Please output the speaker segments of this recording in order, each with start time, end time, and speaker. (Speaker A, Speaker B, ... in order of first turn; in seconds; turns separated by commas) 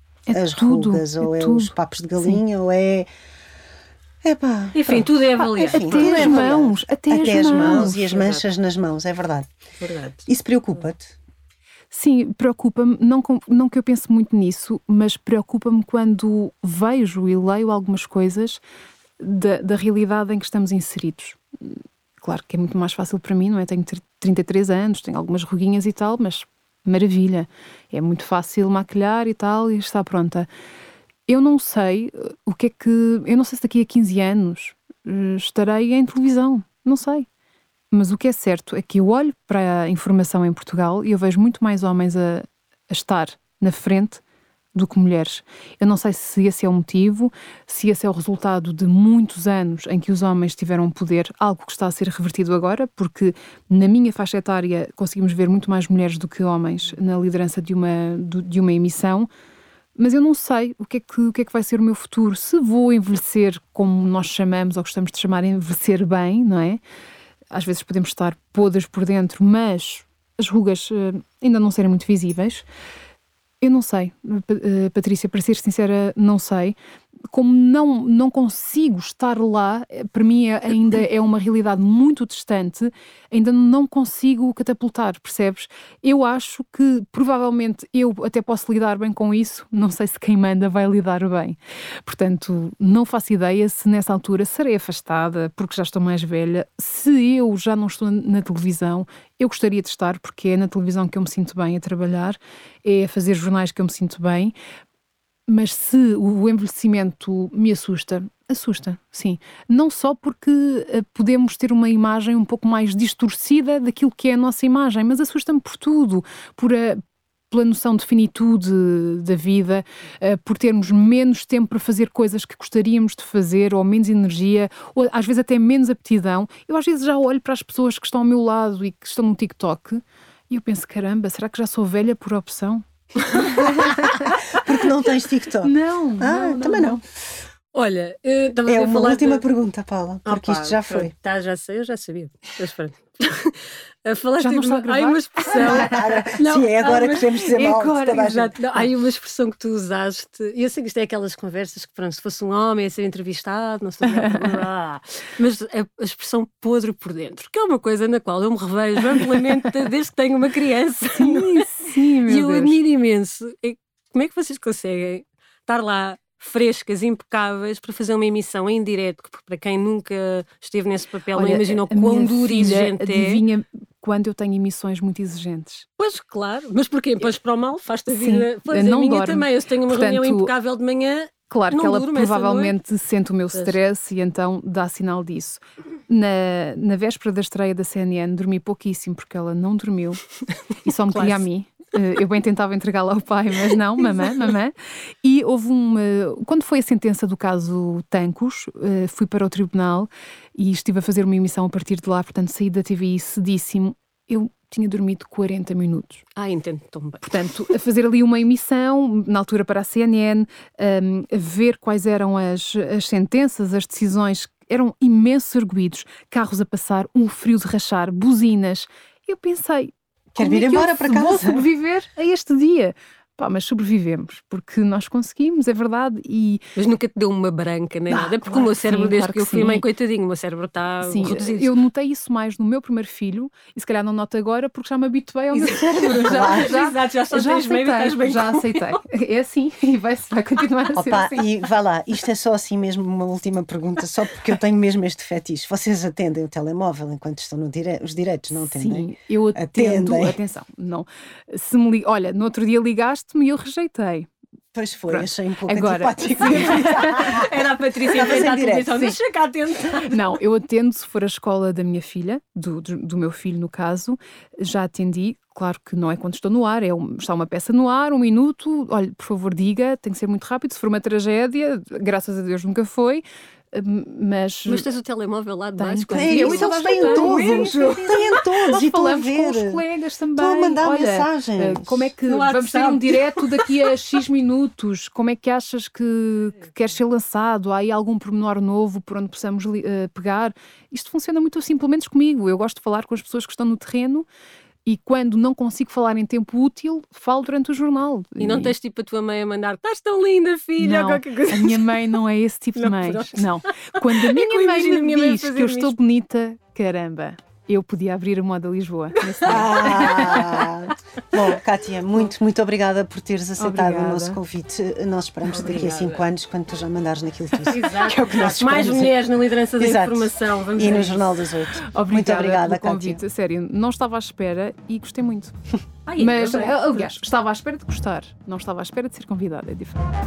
Speaker A: 0.3-2.4, Speaker B: 0.3-3.1, Speaker B: 4.2-9.5, Speaker C: 4.7-6.5, Speaker A: 5.4-8.0, Speaker C: 7.4-8.4, Speaker C: 9.8-10.3, Speaker B: 10.3-11.1, Speaker A: 11.9-18.6, Speaker A: 19.2-30.5, Speaker A: 31.3-37.3, Speaker A: 37.9-44.2, Speaker A: 44.7-59.3, Speaker A: 60.0-66.8, Speaker A: 67.5-72.6, Speaker A: 73.6-76.8, Speaker A: 77.3-104.5, Speaker A: 105.5-134.6, Speaker B: 133.7-137.0, Speaker A: 135.6-137.0, Speaker C: 137.7-139.4, Speaker B: 138.7-141.1, Speaker C: 140.2-147.4, Speaker A: 144.4-146.2, Speaker B: 145.5-148.8, Speaker A: 147.5-148.3, Speaker C: 148.1-161.6, Speaker A: 154.1-154.5, Speaker A: 161.2-162.8, Speaker C: 162.2-173.4, Speaker A: 171.3-175.8, Speaker C: 176.0-182.7, Speaker A: 178.1-180.5, Speaker A: 181.5-190.2, Speaker A: 190.8-206.2, Speaker C: 191.1-191.4, Speaker C: 206.3-207.4, Speaker A: 207.2-226.6, Speaker B: 220.3-221.7, Speaker C: 226.8-231.7, Speaker A: 228.1-229.8, Speaker A: 231.0-241.4, Speaker C: 235.5-238.9, Speaker B: 236.3-236.7, Speaker B: 240.9-250.4, Speaker A: 248.5-254.3, Speaker B: 254.7-257.6, Speaker A: 255.1-258.6, Speaker C: 256.5-260.2, Speaker B: 258.1-259.1, Speaker A: 260.1-274.9, Speaker C: 274.6-278.4, Speaker A: 275.8-294.3, Speaker B: 276.1-279.8, Speaker B: 280.4-282.1, Speaker C: 282.3-283.8, Speaker A: 294.8-298.7, Speaker C: 298.4-301.9, Speaker A: 300.8-310.6, Speaker C: 302.8-305.9, Speaker C: 309.2-310.7, Speaker B: 309.4-319.2, Speaker A: 313.6-314.4, Speaker C: 315.5-316.2, Speaker C: 317.7-321.4, Speaker B: 319.8-323.2, Speaker A: 321.9-325.6, Speaker C: 326.1-327.1, Speaker A: 326.2-330.1